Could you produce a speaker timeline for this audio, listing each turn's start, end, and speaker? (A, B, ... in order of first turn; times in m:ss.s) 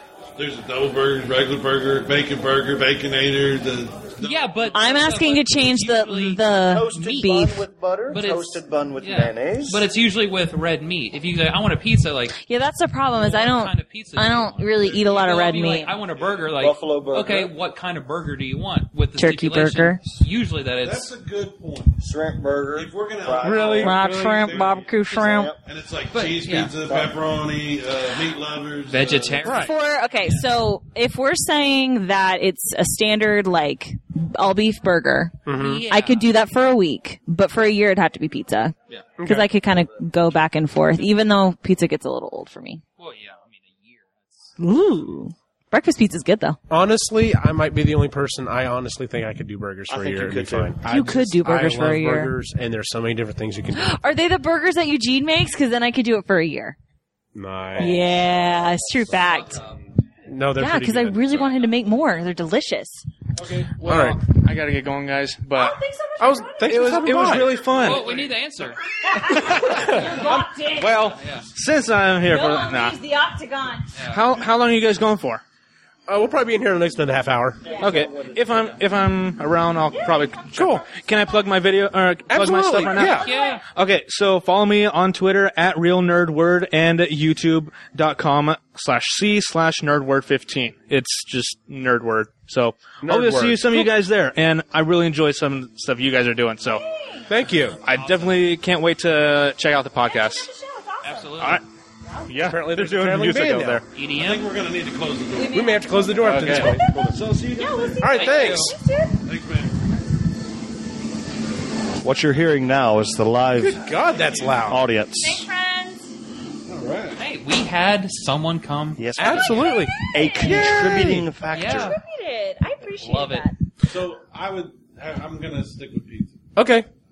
0:00.4-0:04.7 A
0:04.2-0:07.4 B
0:04.7-0:07.6 C
0:06.7-0:09.8 D
0:08.1-0:12.4 B
0:12.4-0:15.9 C
0:13.2-0:21.1 B
0:14.8-0:15.3 A
0:16.1-0:16.5 A
0:16.6-0:17.5 D
0:19.2-0:20.0 C
0:20.8-0:22.0 A
0:22.0-0:23.9 D
0:22.7-0:25.0 A
0:23.4-0:24.0 E
0:23.8-0:25.5 C
0:25.1-0:25.6 D
0:25.6-0:29.6 A
0:26.1-0:26.7 B
0:26.8-0:27.1 D
0:28.9-0:29.7 B
0:29.4-0:29.7 E
0:29.5-0:42.8 C
0:35.4-0:35.8 E
0:35.5-0:36.3 B
0:39.2-0:39.5 E
0:43.0-0:44.5 B
0:44.6-0:46.6 C
0:46.7-0:54.0 E
0:49.9-0:50.7 D
0:50.8-0:52.3 C
0:53.7-0:56.8 C
0:57.3-0:58.0 E
0:57.8-0:59.6 C
0:59.2-0:59.9 B
1:00.3-1:01.4 E
1:00.6-1:03.0 C
1:03.4-1:03.7 A
1:03.8-1:05.8 F
1:03.8-1:04.2 E
1:05.5-1:07.5 C
1:06.2-1:07.8 E
1:06.6-1:08.1 F
1:07.7-1:08.8 B
1:08.0-1:08.3 A
1:09.0-1:11.1 C
1:09.2-1:13.0 F
1:11.1-1:11.5 B
1:12.2-1:13.9 C
1:13.9-1:14.2 B
1:14.1-1:15.4 F
1:16.1-1:17.6 E
1:17.6-1:18.7 D
1:17.7-1:17.9 C
1:17.8-1:36.8 F
1:19.9-1:20.9 C
1:20.6-1:20.8 E
1:22.3-1:23.3 E
1:23.0-1:23.6 B
1:23.1-1:23.6 C
1:33.0-1:33.9 E
1:36.6-1:37.3 C
1:37.3-1:37.8 E
1:37.8-1:40.5 F
1:37.8-1:38.4 B
1:40.0-1:41.6 C
1:41.0-1:41.6 B
1:41.4-1:41.6 F
1:42.2-1:43.8 F
1:42.4-1:43.8 E
1:43.9-1:44.5 B
1:44.1-1:45.6 A
1:45.3-1:49.2 C
1:45.5-1:46.8 E
1:46.2-1:46.8 F
1:46.4-1:47.2 D
1:47.1-1:48.3 A
1:48.0-1:48.7 E
1:48.0-1:48.7 B
1:49.2-1:49.8 A
1:52.0-1:53.8 D
1:53.6-1:54.9 E
1:54.6-1:55.5 D
1:55.2-1:56.1 C
1:56.6-1:57.2 A
1:57.2-1:59.7 B
1:59.0-2:02.0 D
1:59.2-2:01.3 E
1:59.7-2:03.6 C
2:01.5-2:02.0 B
2:03.0-2:03.5 B
2:03.8-2:06.4 A
2:06.6-2:06.9 E